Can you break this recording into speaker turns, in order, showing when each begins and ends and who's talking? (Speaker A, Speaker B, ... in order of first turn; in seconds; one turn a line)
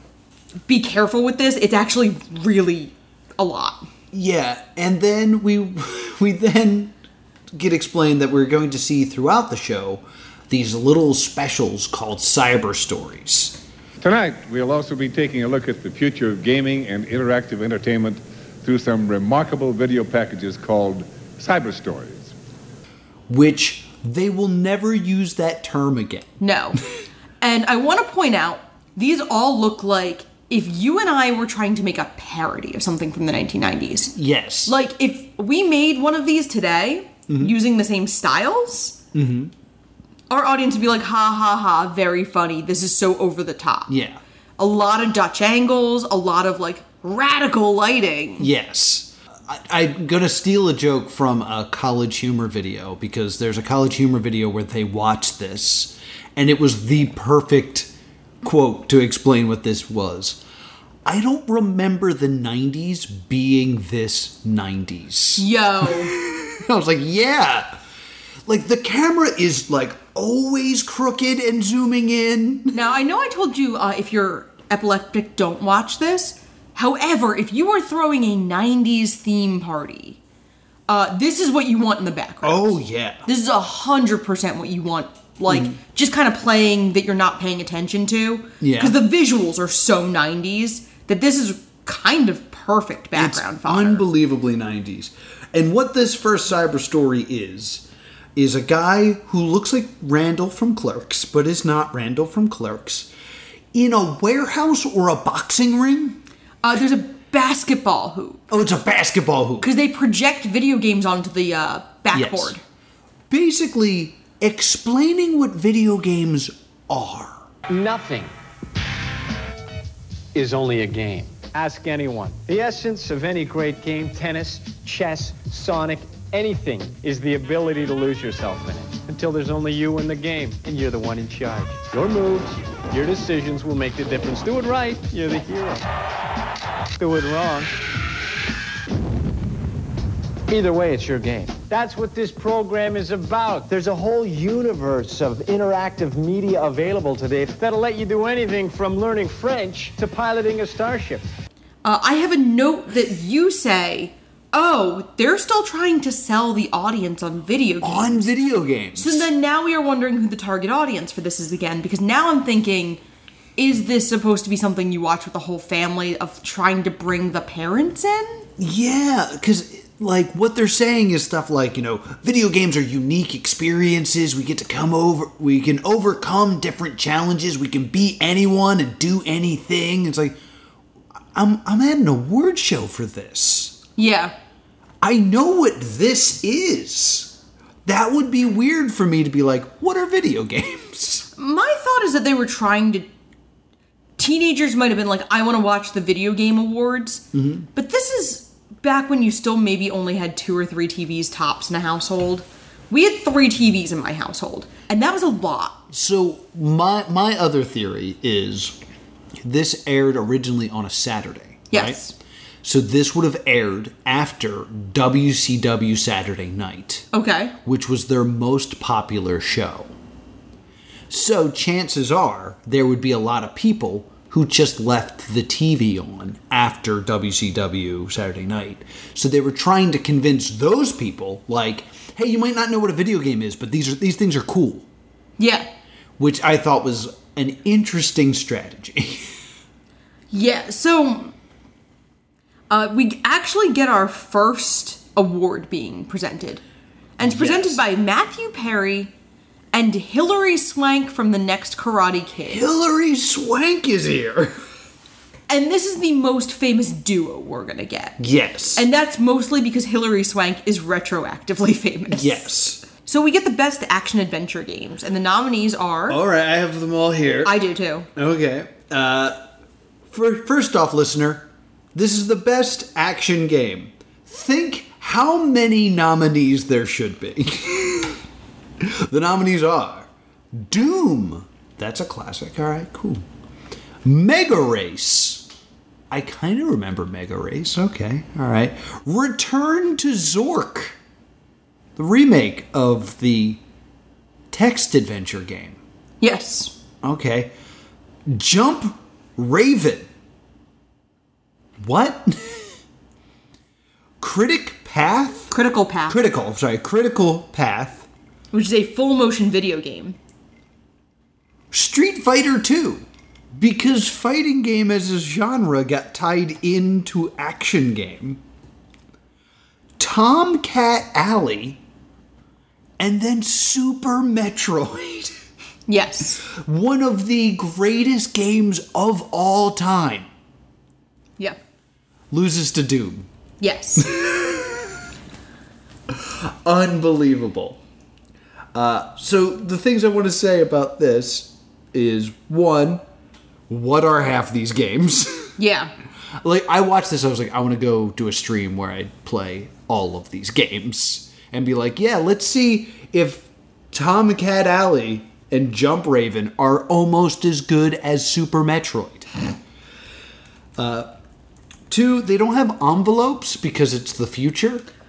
Speaker A: 0.7-3.9
Speaker B: 4.1-6.9
Speaker B: 7.5-13.6
Speaker C: 14.0-22.3
Speaker B: 23.3-26.3
Speaker A: 26.4-26.8
Speaker A: 27.4-39.0
Speaker B: 34.1-34.8
Speaker B: 39.1-39.5
Speaker A: 40.3-43.9
Speaker B: 43.9-44.2
Speaker A: 44.6-48.5
Speaker B: 48.4-57.9
Speaker B: 58.4-60.4
Speaker B: 61.0-67.8
Speaker A: 65.4-66.1
Speaker B: 68.5-72.8
Speaker A: 72.7-80.2
Speaker A: 80.9-94.1
Speaker B: 82.4-83.3
Speaker B: 85.5-85.8
Speaker B: 88.6-89.0
Speaker B: 93.2-103.1
Speaker B: 103.7-106.2
Speaker A: 106.6-108.4
Speaker B: 108.5-109.7
Speaker A: 109.6-112.6
Speaker B: 112.1-112.6
Speaker B: 113.3-117.4
Speaker D: 117.7-118.3
Speaker D: 120.3-135.8
Speaker D: 137.0-137.7
Speaker D: 140.5-151.3
Speaker A: 151.8-158.3
Speaker B: 157.8-159.3
Speaker A: 159.0-163.0
Speaker A: 163.6-168.5
Speaker B: 168.6-180.4
Speaker B: 181.3-183.8
Speaker A: 184.0-184.3
Speaker B: 185.0-191.3
Speaker A: 191.4-193.1
Speaker A: 194.2-205.8
Speaker B: 197.3-197.7
Speaker B: 205.9-208.8
Speaker B: 209.4-212.0
Speaker A: 211.7-212.1
Speaker B: 212.6-217.1
Speaker A: 217.1-217.6
Speaker B: 217.6-219.9
Speaker B: 221.1-234.8
Speaker A: 235.4-235.7
Speaker B: 236.2-239.2
Speaker A: 240.3-241.3
Speaker A: 242.7-246.6
Speaker A: 247.2-249.1
Speaker B: 247.2-247.8
Speaker A: 249.7-252.6
Speaker B: 252.5-254.5
Speaker A: 255.5-258.2
Speaker B: 258.2-258.9
Speaker A: 258.8-266.2
Speaker B: 262.1-262.8
Speaker B: 266.1-267.6
Speaker A: 267.4-268.1
Speaker B: 268.1-269.4
Speaker B: 270.1-278.2
Speaker B: 278.8-283.2
Speaker B: 284.0-285.5
Speaker B: 286.1-291.0
Speaker B: 292.0-293.6
Speaker B: 294.5-295.8
Speaker A: 296.2-296.8
Speaker B: 297.0-297.5
Speaker B: 298.3-300.1
Speaker B: 301.8-302.7
Speaker B: 304.2-305.5
Speaker A: 305.5-306.2
Speaker B: 306.1-308.1
Speaker A: 308.5-310.2
Speaker B: 311.7-318.4
Speaker B: 320.0-321.8
Speaker B: 323.0-325.3
Speaker A: 325.9-326.4
Speaker B: 326.5-330.3
Speaker B: 332.3-333.3
Speaker A: 333.6-334.1
Speaker B: 334.0-334.9
Speaker B: 336.1-337.8
Speaker B: 338.7-343.0
Speaker B: 343.7-345.5
Speaker A: 345.6-345.9
Speaker B: 346.4-359.3
Speaker B: 360.8-361.1
Speaker B: 361.9-364.9